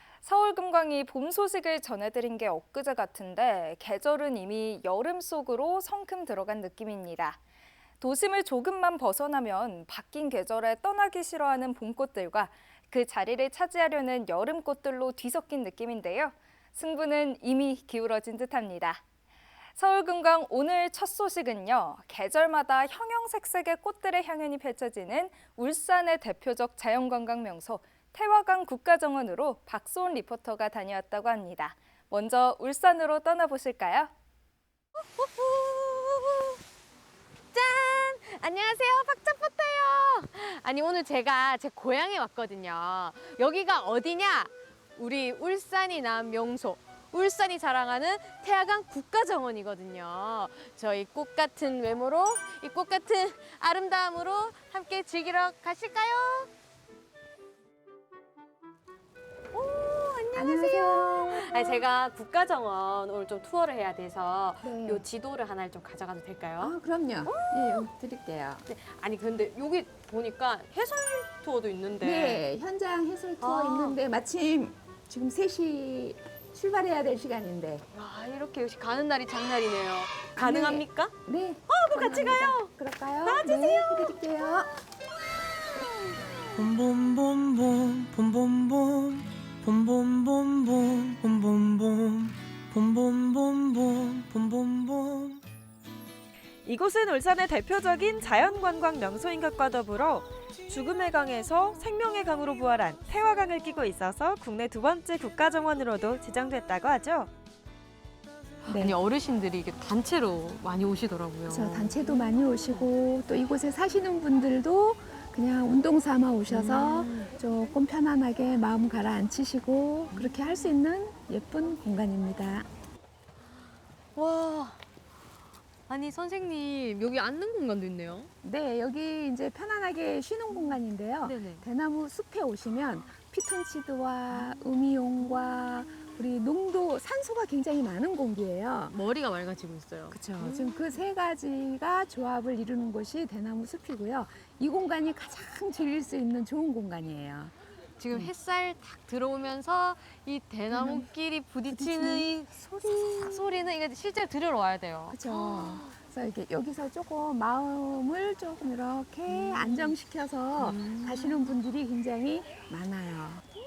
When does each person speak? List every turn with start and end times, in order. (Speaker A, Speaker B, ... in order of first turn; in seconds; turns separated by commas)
Speaker A: 0.2-7.4, Speaker A: 8.0-19.0, Speaker A: 19.8-34.1, Speaker B: 35.0-36.6, Speaker B: 37.5-56.5, Speaker B: 59.5-67.9, Speaker C: 60.3-61.8, Speaker C: 64.6-65.0, Speaker C: 66.6-68.7, Speaker B: 68.7-72.4, Speaker C: 72.0-77.8, Speaker B: 73.4-74.0, Speaker B: 77.9-81.2, Speaker C: 80.3-84.7, Speaker B: 81.7-82.7, Speaker B: 83.2-84.2, Speaker D: 86.5-95.4, Speaker E: 96.7-107.3, Speaker C: 108.7-109.0, Speaker B: 108.7-112.9, Speaker C: 111.5-122.7, Speaker B: 116.5-117.3, Speaker B: 120.1-120.4, Speaker B: 124.2-124.8, Speaker B: 125.9-128.3, Speaker C: 128.4-139.0, Speaker B: 131.2-131.7, Speaker B: 138.9-140.9, Speaker C: 140.1-147.5, Speaker B: 148.0-156.0, Speaker C: 150.7-151.1, Speaker C: 151.7-153.5, Speaker C: 155.1-163.5, Speaker B: 159.3-160.0, Speaker B: 160.6-161.5